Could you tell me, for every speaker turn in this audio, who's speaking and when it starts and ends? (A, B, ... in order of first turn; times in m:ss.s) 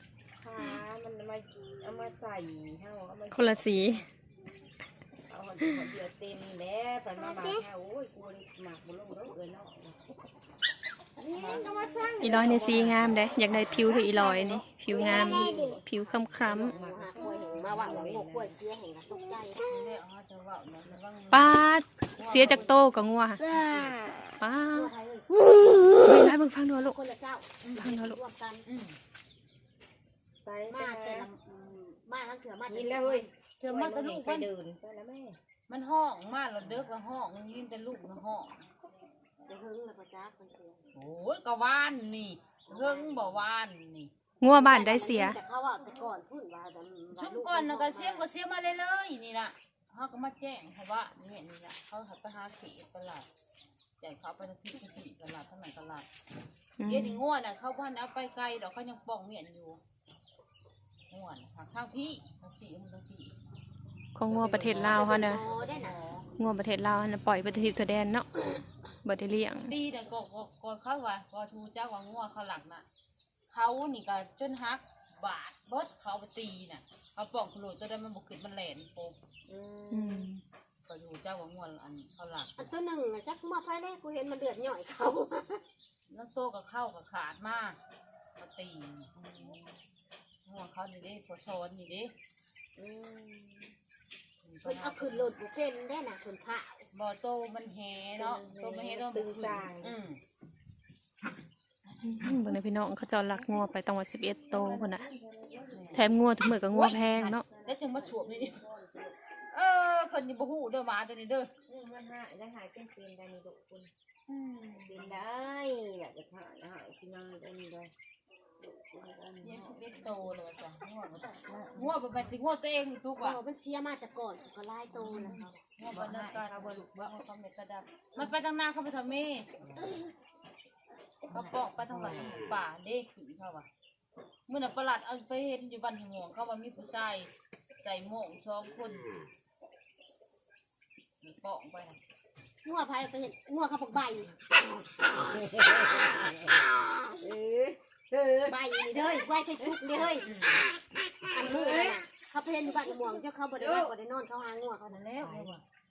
0:00.4-0:04.0 A
0:03.3-0:04.0 B
0:05.2-0:10.0 A
0:11.2-0:18.6 A
0:11.3-0:11.7 C
0:12.2-0:16.7 B
0:15.0-0:15.5 D
0:16.4-0:19.6 D
0:19.6-0:21.6 C
0:21.3-0:23.5 B
0:22.1-0:22.8 C
0:22.3-0:22.7 A
0:23.4-0:24.0 C
0:23.5-0:23.8 A
0:24.4-0:24.9 B
0:24.7-0:25.4 D
0:25.7-0:27.0 B
0:26.8-0:28.6 D
0:27.7-0:28.2 B
0:28.6-0:29.0 C
0:30.4-0:31.3 A
0:30.7-0:33.3 D
0:32.7-0:35.4 A
0:33.6-0:34.5 C
0:35.7-0:38.6 C
0:39.4-0:40.8 D
0:40.9-0:44.1 C
0:42.7-0:43.3 D
0:44.4-0:45.4 B
0:44.5-0:48.3 D
0:47.1-0:53.3 C
0:54.0-0:56.1 C
0:56.8-0:57.2 B
0:56.8-0:59.8 C
1:01.1-1:03.3 C
1:04.2-1:05.4 B
1:04.4-1:06.2 C
1:04.5-1:05.0 A
1:04.8-1:06.0 D
1:06.4-1:08.4 B
1:09.0-1:09.7 B
1:09.6-1:12.8 C
1:13.5-1:19.2 C
1:19.5-1:20.3 D
1:19.9-1:20.4 B
1:20.8-1:22.7 C
1:22.6-1:25.6 D
1:26.1-1:27.8 C
1:28.4-1:29.1 C
1:29.2-1:29.6 A
1:30.4-1:32.1 C
1:32.8-1:33.7 A
1:34.4-1:35.3 C
1:34.6-1:36.9 D
1:36.9-1:40.2 C
1:38.2-1:40.0 A
1:42.0-1:45.1 B
1:44.5-1:46.2 A
1:45.7-1:46.0 C
1:45.9-1:47.4 B
1:46.7-1:48.6 C
1:46.8-1:49.2 A
1:49.5-1:51.5 C
1:51.7-1:53.9 A
1:54.3-1:55.2 C
1:54.8-1:57.9 A
1:58.6-2:00.4 A
1:59.4-2:03.4 C
2:01.2-2:02.1 A
2:03.2-2:05.6 D
2:04.9-2:07.1 A
2:05.2-2:09.5 C
2:09.6-2:09.9 A
2:11.2-2:12.4 A
2:11.2-2:13.7 C
2:14.5-2:17.3 C
2:17.8-2:19.1 C
2:21.2-2:22.0 C
2:22.6-2:24.3 D
2:25.1-2:26.5 A
2:27.2-2:30.1 A
2:28.5-2:30.3 D
2:30.2-2:30.6 C
2:31.2-2:32.0 A
2:31.3-2:35.1 D
2:33.6-2:33.9 A
2:34.9-2:35.6 C
2:35.1-2:35.6 A